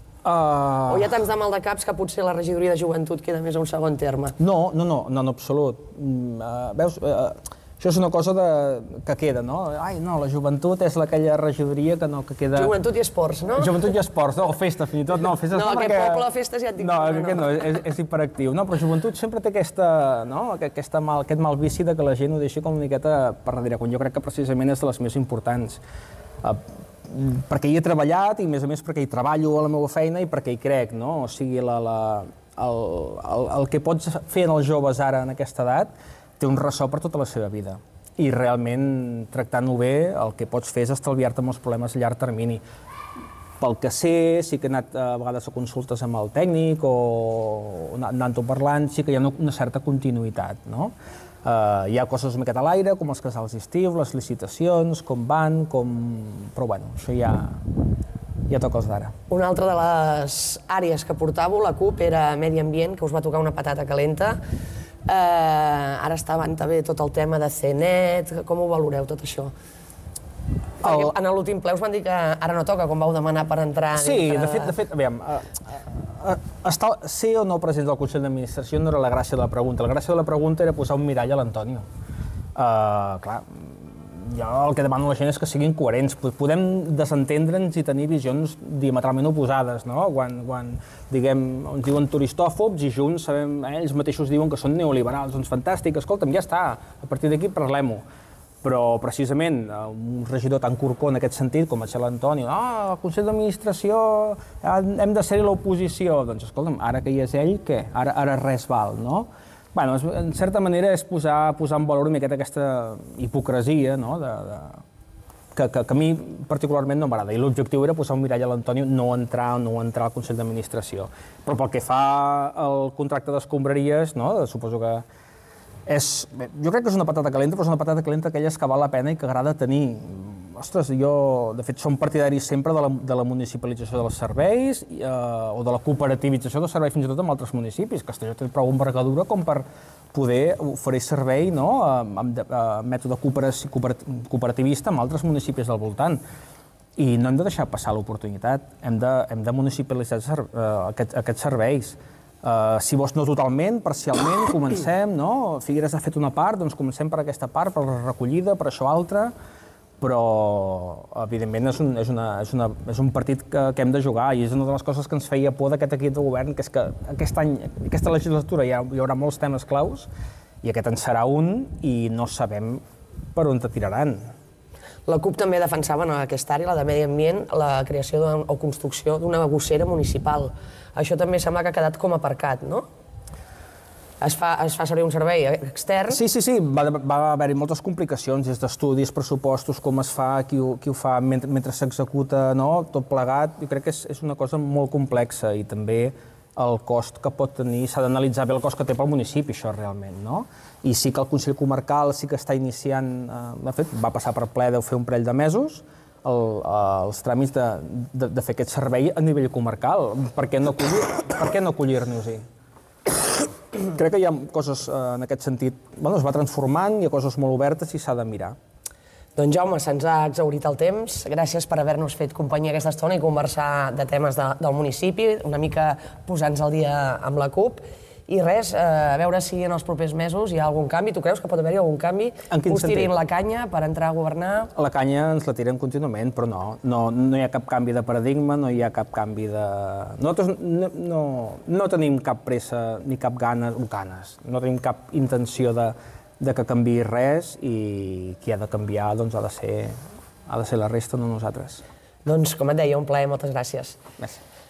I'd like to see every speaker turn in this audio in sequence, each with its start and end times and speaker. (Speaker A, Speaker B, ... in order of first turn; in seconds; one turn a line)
Speaker A: 0.2-1.1
Speaker B: 0.9-4.3
Speaker A: 4.4-12.7
Speaker B: 12.6-13.8
Speaker A: 13.6-16.3
Speaker B: 15.5-17.6
Speaker A: 16.8-25.8
Speaker A: 26.4-42.6
Speaker A: 43.6-50.9
Speaker A: 51.4-57.6
Speaker A: 58.5-59.1
Speaker B: 59.3-64.4
Speaker B: 65.1-69.5
Speaker B: 70.8-74.8
Speaker A: 70.8-71.1
Speaker A: 74.0-81.8
Speaker A: 82.6-98.0
Speaker A: 98.6-114.8
Speaker A: 115.5-125.0
Speaker A: 125.9-146.2
Speaker A: 147.0-159.3
Speaker A: 160.0-170.1
Speaker A: 170.6-172.8
Speaker A: 173.3-174.3
Speaker B: 175.1-182.9
Speaker B: 184.2-186.2
Speaker A: 186.1-212.4
Speaker A: 213.1-218.6
Speaker B: 219.4-234.7
Speaker A: 232.5-233.1
Speaker A: 234.7-251.8
Speaker B: 252.2-254.0